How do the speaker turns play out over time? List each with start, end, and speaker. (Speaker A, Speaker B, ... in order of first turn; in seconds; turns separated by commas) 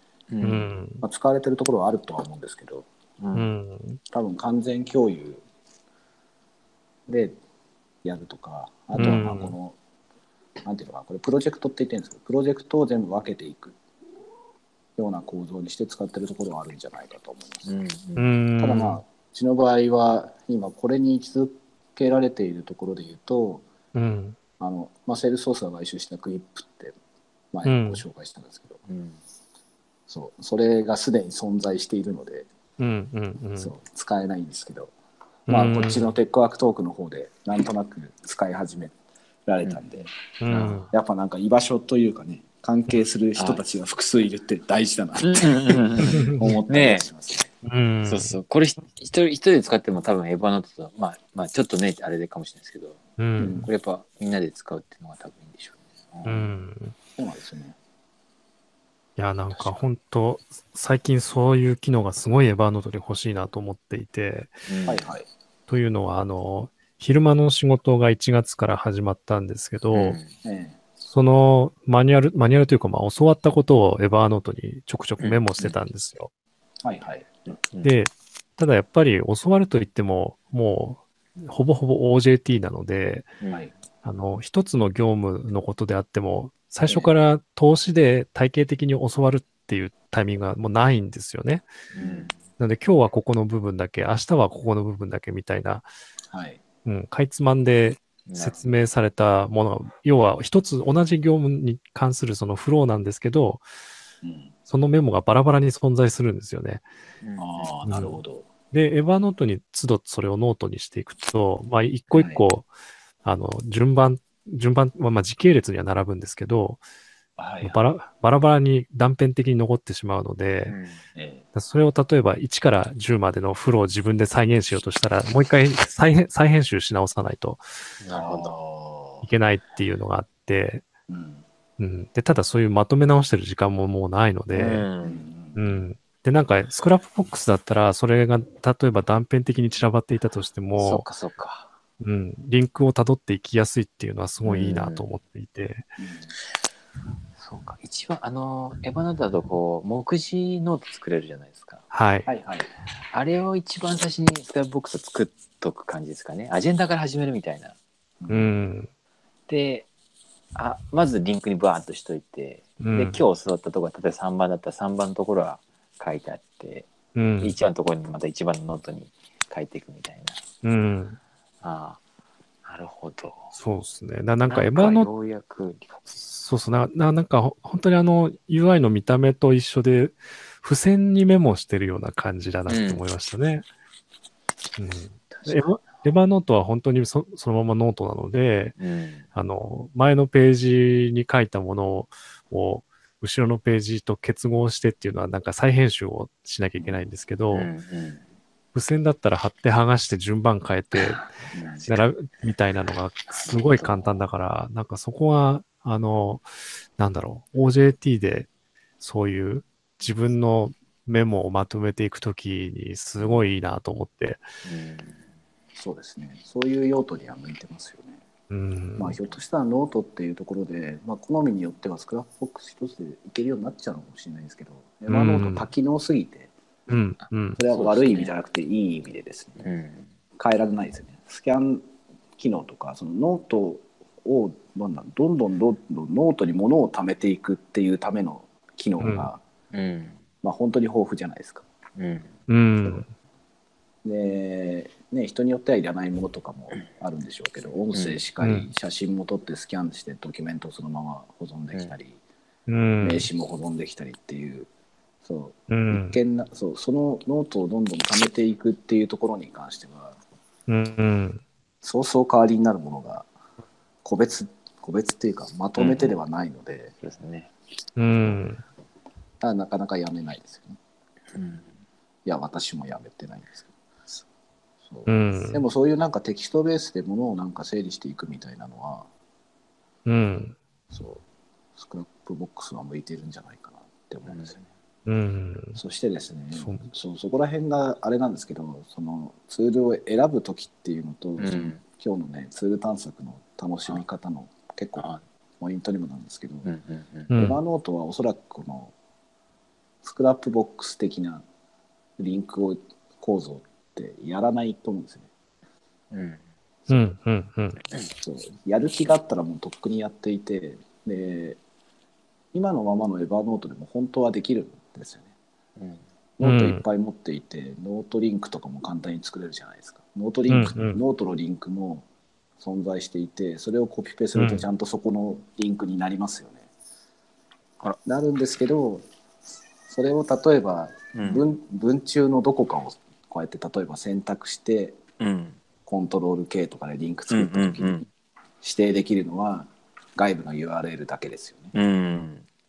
Speaker A: 0.3-0.8, Speaker B: 0.4-1.0, Speaker C: 1.0-2.9, Speaker A: 3.2-3.5, Speaker B: 3.3-4.0, Speaker C: 4.1-5.4, Speaker C: 7.1-7.4, Speaker C: 8.0-9.8, Speaker B: 8.9-9.5, Speaker C: 10.7-13.8, Speaker C: 15.0-17.8, Speaker A: 17.6-18.3, Speaker B: 18.2-19.0, Speaker C: 18.6-23.7, Speaker B: 23.9-24.4, Speaker C: 24.6-26.9, Speaker C: 27.5-28.8, Speaker B: 27.6-28.0, Speaker A: 28.9-29.2, Speaker C: 30.1-32.5, Speaker B: 32.8-33.7, Speaker C: 33.6-34.9, Speaker B: 35.5-36.1, Speaker C: 35.5-39.0, Speaker C: 39.5-40.1, Speaker B: 40.4-40.9, Speaker A: 40.5-40.9, Speaker C: 40.9-47.5, Speaker A: 45.2-47.1, Speaker B: 46.1-46.5, Speaker B: 47.6-48.4, Speaker A: 48.0-56.5, Speaker B: 53.2-53.7, Speaker C: 53.4-53.7, Speaker B: 56.2-56.9, Speaker C: 57.2-57.8, Speaker B: 59.2-64.7, Speaker A: 59.5-59.8, Speaker A: 64.7-65.0, Speaker C: 64.8-65.3, Speaker B: 65.7-70.2, Speaker A: 69.9-70.3, Speaker C: 70.4-70.8, Speaker B: 71.0-76.3, Speaker A: 75.2-75.8, Speaker C: 76.8-77.3, Speaker B: 77.8-83.3, Speaker B: 84.0-91.7, Speaker C: 86.9-87.1, Speaker A: 91.9-92.3, Speaker C: 92.0-92.3, Speaker B: 92.6-95.9, Speaker C: 96.3-96.6, Speaker B: 96.8-103.6, Speaker A: 98.3-98.7, Speaker C: 104.2-104.5, Speaker B: 104.7-106.8, Speaker A: 107.2-107.7, Speaker C: 107.4-108.5, Speaker B: 107.9-108.2, Speaker B: 108.7-112.7, Speaker C: 112.1-112.4, Speaker B: 113.2-116.8, Speaker C: 117.4-117.8, Speaker B: 117.6-120.8, Speaker A: 120.7-121.0, Speaker C: 121.2-121.5, Speaker B: 121.5-127.7, Speaker A: 128.0-128.6, Speaker C: 128.1-129.3, Speaker B: 129.2-130.8, Speaker C: 131.1-131.4, Speaker B: 131.8-134.9, Speaker A: 134.5-135.3, Speaker C: 135.0-135.7, Speaker B: 135.6-141.1, Speaker A: 140.8-141.7, Speaker B: 142.0-145.9, Speaker A: 144.4-145.1, Speaker C: 146.0-146.3, Speaker A: 147.4-151.9, Speaker B: 151.9-152.3, Speaker C: 152.3-152.7, Speaker A: 153.1-157.8, Speaker C: 158.2-158.5, Speaker B: 158.3-158.9, Speaker A: 159.5-159.9, Speaker A: 160.6-170.4, Speaker B: 162.8-163.2, Speaker B: 167.2-167.6, Speaker B: 170.6-171.2, Speaker A: 171.6-172.0, Speaker A: 172.6-173.6, Speaker B: 173.6-175.1, Speaker A: 174.5-176.3, Speaker B: 176.3-183.7, Speaker A: 182.7-183.0, Speaker B: 184.8-188.8, Speaker A: 185.3-186.1, Speaker A: 188.8-189.3, Speaker B: 189.3-197.7, Speaker A: 197.5-198.2, Speaker B: 198.7-201.3, Speaker A: 200.9-201.8, Speaker C: 201.5-201.8, Speaker B: 201.8-208.5, Speaker A: 203.3-204.2, Speaker B: 209.0-214.5, Speaker A: 214.6-215.2, Speaker C: 215.8-218.2, Speaker B: 218.5-219.2, Speaker C: 219.0-226.5, Speaker B: 225.1-225.7, Speaker B: 226.9-227.6, Speaker C: 227.6-229.6, Speaker A: 227.7-228.3, Speaker A: 229.6-230.1, Speaker C: 230.4-231.8, Speaker C: 232.4-239.4, Speaker B: 239.0-239.3, Speaker A: 239.7-240.2, Speaker C: 240.4-241.7, Speaker A: 242.0-242.3, Speaker B: 242.5-243.1, Speaker C: 244.0-252.2, Speaker A: 247.9-248.2, Speaker B: 248.4-248.7, Speaker B: 252.7-253.3, Speaker C: 253.0-254.7, Speaker C: 255.2-260.2, Speaker B: 255.7-256.2, Speaker B: 260.7-261.4, Speaker C: 261.8-263.3, Speaker C: 264.0-266.9, Speaker A: 265.8-266.1, Speaker A: 267.0-267.5, Speaker B: 268.0-268.6, Speaker C: 269.4-270.8, Speaker A: 271.3-271.7, Speaker C: 272.3-273.7, Speaker C: 274.9-279.1, Speaker B: 275.1-275.6, Speaker B: 280.1-280.6, Speaker C: 280.9-281.2, Speaker C: 281.8-284.6, Speaker A: 284.3-284.6, Speaker B: 285.1-285.8, Speaker C: 285.8-295.1, Speaker A: 291.4-291.8, Speaker C: 295.6-296.7, Speaker A: 296.6-297.4, Speaker B: 297.3-297.6, Speaker C: 297.4-298.9, Speaker C: 300.0-301.4, Speaker C: 302.2-305.3, Speaker A: 306.1-306.4, Speaker B: 306.9-307.8, Speaker C: 308.2-311.6, Speaker C: 312.5-315.3, Speaker A: 315.8-316.0, Speaker C: 316.4-322.1, Speaker B: 316.4-316.8, Speaker B: 320.5-321.0, Speaker C: 322.6-326.7, Speaker B: 324.4-324.6, Speaker C: 328.0-329.1, Speaker C: 329.9-335.0, Speaker A: 331.1-331.4, Speaker A: 335.2-335.6, Speaker C: 335.9-338.1, Speaker A: 337.3-338.1, Speaker C: 338.6-341.7, Speaker A: 341.7-342.4